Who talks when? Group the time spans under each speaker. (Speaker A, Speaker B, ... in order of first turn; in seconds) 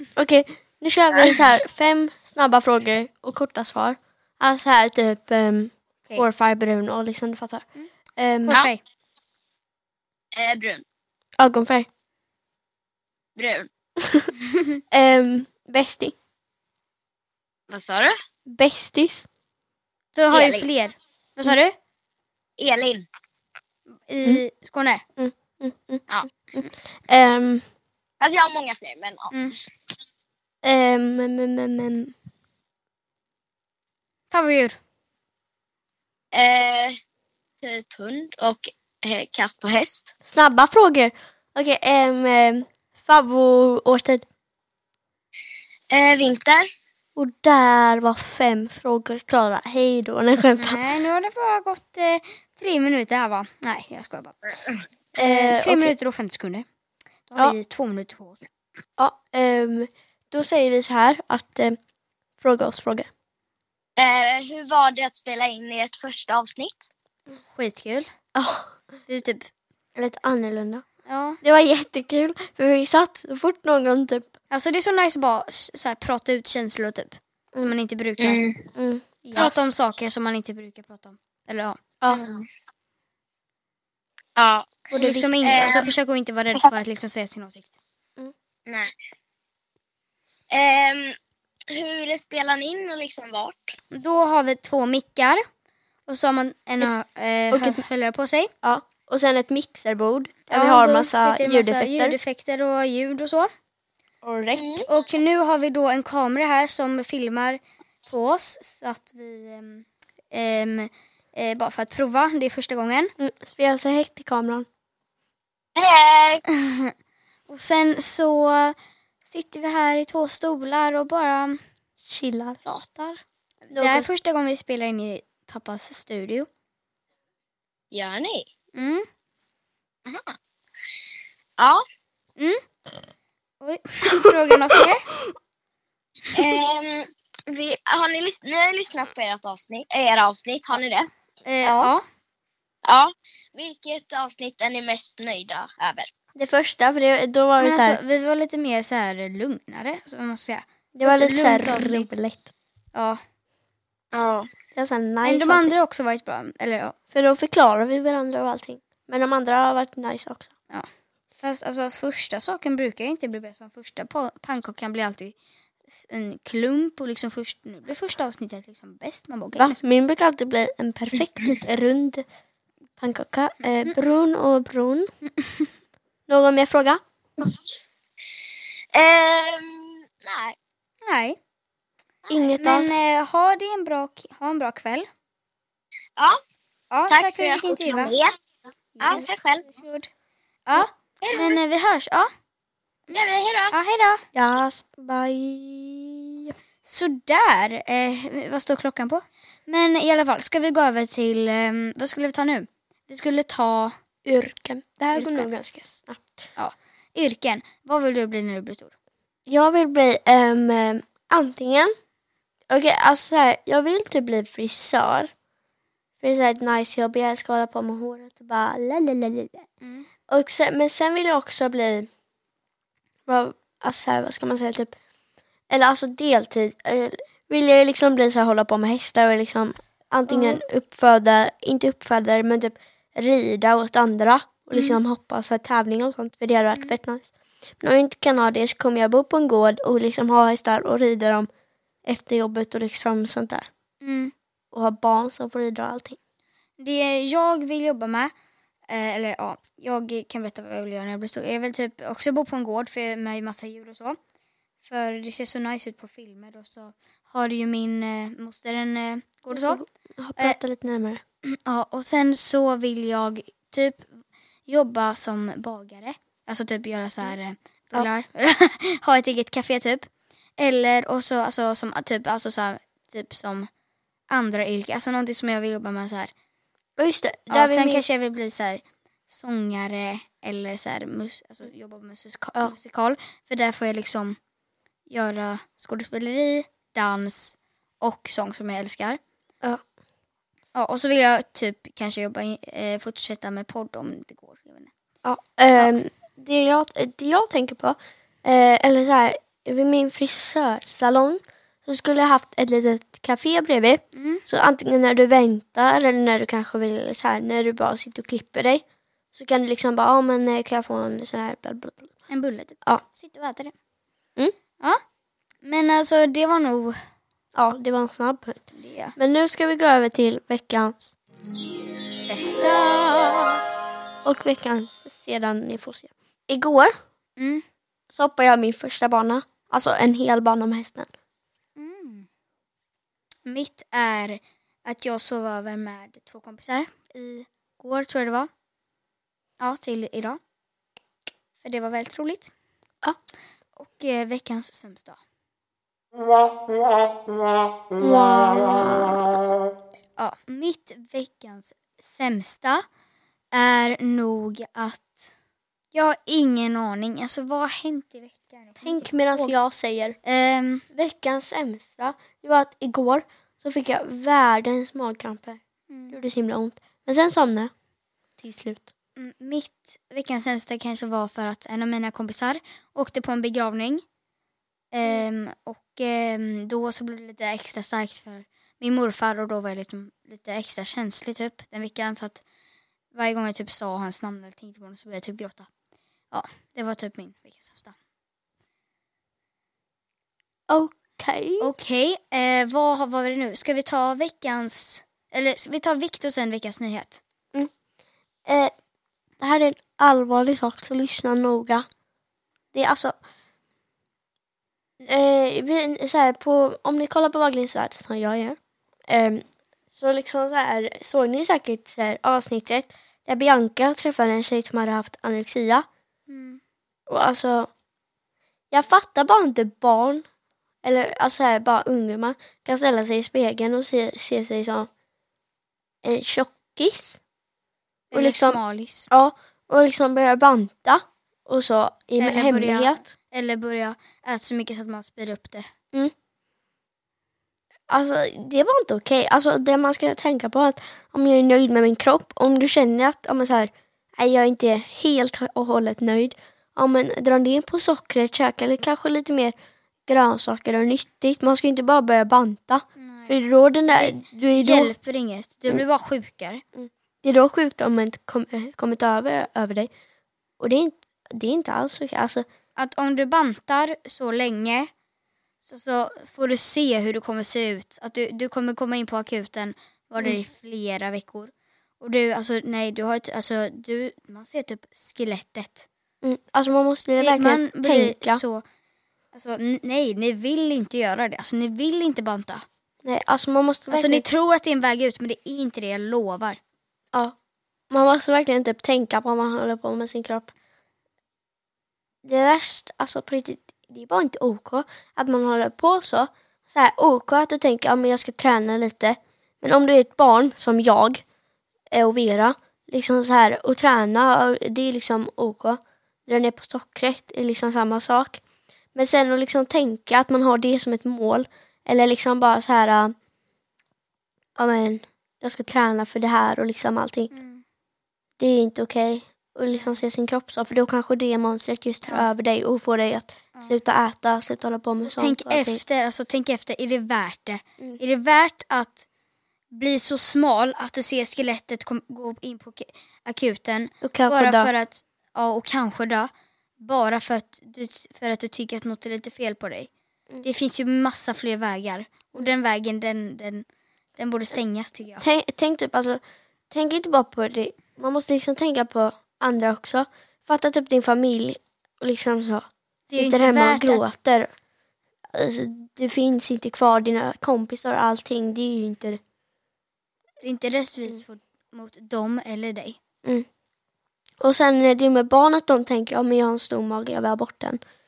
Speaker A: 0.2-8.6, 11.4-11.9, 14.0-14.3, 14.9-16.1, 18.5-19.3, 25.2-27.6, 30.6-32.1, 40.2-44.2, 47.1-50.8, 55.2-55.9, 59.0-61.8, 62.4-63.1, 68.3-68.7, 70.0-70.8, 71.4-74.3, 78.7-79.7, 84.9-85.6, 97.5-97.8, 98.6-102.2, 104.2-104.8, 113.2-114.7, 122.0-122.6, 123.7-124.1, 141.6-141.9, 146.3-148.0, 150.9-152.5, 154.7-155.7, 157.1-160.5, 169.6-172.2, 173.0-175.1, 176.3-177.0, 182.3-183.0, 194.3-196.5, 204.2-206.2, 209.5-211.9, 212.7-215.3, 216.2-219.7, 220.3-222.1, 223.3-224.9, 225.7-241.5, 242.0-243.7, 244.7-246.2, 259.5-261.2, 277.0-278.0, 295.2-312.1, 317.5-318.6, 319.2-321.1, 324.2-326.9, 328.1-331.1, 348.0-349.1, 358.8-360.2, 360.9-367.7, 368.4-368.9, 390.7-391.7, 398.4-398.7, 399.4-401.9, 402.7-403.2, 405.0-408.6, 409.1-415.9, 417.1-417.7, 418.7-420.2, 420.8-424.9, 426.0-427.2, 428.1-433.0, 437.9-449.5, 450.1-454.9, 456.8-459.9, 460.6-462.4, 476.2-478.4, 483.0-484.2, 487.9-490.5, 492.2-501.2, 501.9-508.4, 508.9-513.1, 514.5-517.3, 518.4-525.8, 534.0-534.7, 545.2-554.5, 555.3-559.2, 564.4-567.8
Speaker B: 8.4-8.8, 20.1-21.7, 24.1-25.0, 34.3-34.8, 50.6-54.4, 55.2-56.6, 57.3-58.5, 67.5-68.1, 69.1-69.5, 71.0-71.4, 74.5-78.4, 79.3-81.8, 84.9-87.8, 93.9-95.4, 96.1-98.5, 100.5-103.5, 104.9-113.1, 116.5-116.9, 117.5-121.6, 122.6-126.5, 128.7-129.1, 133.6-135.1, 141.4-142.0, 147.6-152.1, 152.9-153.2, 155.2-156.9, 161.4-165.3, 165.9-169.8, 181.0-181.4, 182.6-185.1, 186.9-188.1, 188.9-190.1, 190.7-192.3, 193.7-194.2, 196.8-203.9, 205.1-205.5, 206.6-208.9, 219.8-220.1, 230.3-230.6, 244.0-244.3, 246.8-248.3, 248.9-254.2, 254.8-259.8, 261.4-264.1, 264.7-273.7, 274.3-276.3, 277.5-284.4, 285.1-289.2, 290.7-294.9, 304.1-304.4, 312.3-313.7, 315.6-317.0, 318.7-319.1, 322.2-323.5, 327.4-327.6, 331.8-332.3, 333.4-338.5, 339.6-340.4, 341.6-342.5, 343.8-345.2, 350.2-352.8, 353.5-355.3, 355.9-359.6, 360.2-360.9, 365.9-366.2, 369.2-374.0, 374.9-382.4, 383.1-385.7, 386.3-387.9, 391.6-397.2, 416.3-416.6, 428.1-429.1, 432.2-435.7, 453.0-453.3, 453.9-456.6, 462.8-464.9, 465.6-475.9, 477.2-478.6, 479.3-482.6, 483.9-486.6, 517.3-517.6, 525.0-529.1, 529.7-539.9, 540.4-543.6, 544.2-545.2, 553.1-554.1, 560.4-563.0
Speaker C: 10.3-10.8, 13.3-13.7, 17.7-18.1, 20.3-20.7, 22.6-23.1, 28.2-29.3, 36.3-37.0, 37.6-40.1, 45.9-46.7, 64.0-66.9, 78.2-78.6, 82.1-82.5, 84.4-84.9, 85.4-85.9, 88.7-88.9, 90.5-91.2, 91.7-93.8, 104.5-104.9, 115.8-116.4, 127.9-128.5, 130.1-130.3, 131.6-131.8, 136.3-141.1, 142.8-146.1, 154.1-154.5, 178.9-180.6, 187.1-188.3, 189.0-189.7, 191.2-191.6, 193.1-193.7